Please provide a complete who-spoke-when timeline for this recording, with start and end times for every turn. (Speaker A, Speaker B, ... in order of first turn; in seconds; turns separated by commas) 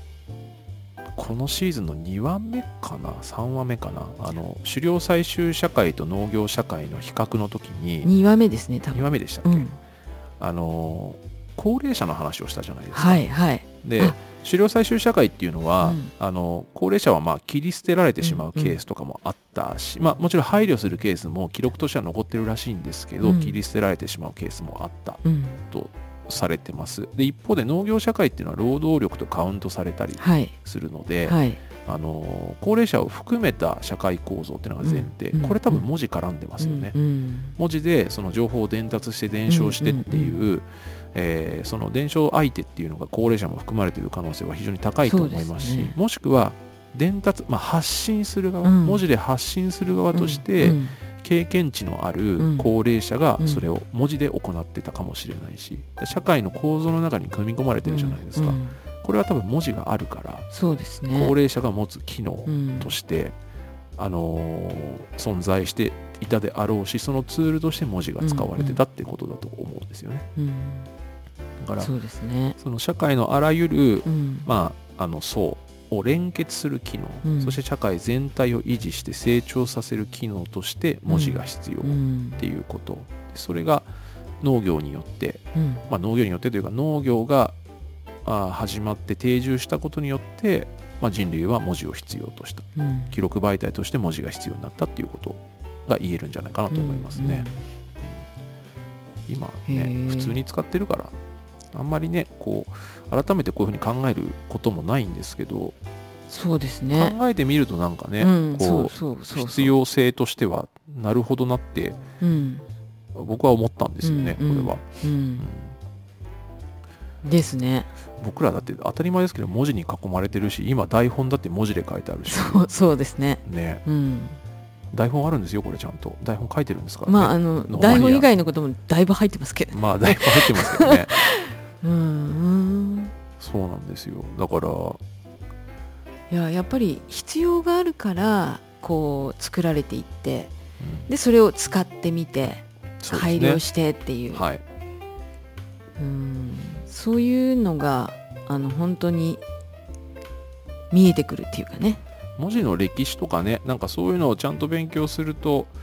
Speaker A: 1.1-8.1, Speaker B: 8.0-9.8, Speaker A: 8.9-9.7, Speaker A: 10.4-13.2, Speaker B: 12.9-14.2, Speaker A: 13.8-37.0, Speaker B: 15.8-16.1, Speaker B: 18.2-18.8, Speaker B: 23.2-23.6, Speaker B: 25.2-25.6, Speaker B: 30.2-30.5, Speaker B: 31.3-31.6, Speaker B: 34.8-35.9, Speaker B: 36.6-37.6, Speaker A: 37.6-60.5, Speaker B: 39.5-40.4, Speaker B: 45.0-46.0, Speaker B: 48.6-49.0, Speaker B: 50.1-51.0, Speaker B: 52.4-52.7, Speaker B: 53.4-53.6, Speaker B: 57.9-58.8, Speaker B: 60.5-61.3, Speaker A: 61.1-63.4, Speaker B: 62.5-62.9, Speaker A: 64.0-70.3, Speaker B: 68.2-68.8, Speaker B: 70.4-70.9, Speaker A: 71.6-71.9, Speaker B: 71.8-72.6, Speaker A: 72.6-83.9, Speaker B: 74.1-74.5, Speaker B: 77.2-77.6, Speaker B: 81.1-82.4, Speaker A: 84.4-87.6, Speaker B: 85.5-85.9, Speaker A: 88.2-97.5, Speaker B: 92.8-93.2, Speaker B: 96.7-97.6, Speaker A: 99.3-101.1, Speaker B: 99.7-100.4, Speaker A: 101.7-105.8, Speaker B: 106.3-107.2, Speaker A: 107.0-112.0, Speaker B: 108.2-109.7, Speaker B: 112.2-112.7, Speaker A: 113.1-114.8, Speaker B: 114.0-115.5, Speaker A: 115.4-115.8, Speaker B: 117.2-117.9, Speaker A: 118.2-122.6, Speaker B: 122.3-124.4, Speaker A: 123.4-123.8, Speaker A: 124.9-128.3, Speaker B: 127.1-133.1, Speaker A: 129.7-131.2, Speaker A: 133.4-135.0, Speaker B: 136.3-140.5, Speaker A: 140.8-141.1, Speaker B: 141.1-144.4, Speaker A: 143.0-143.6, Speaker A: 144.3-144.6, Speaker B: 146.0-149.4, Speaker B: 150.9-152.0, Speaker A: 152.4-155.7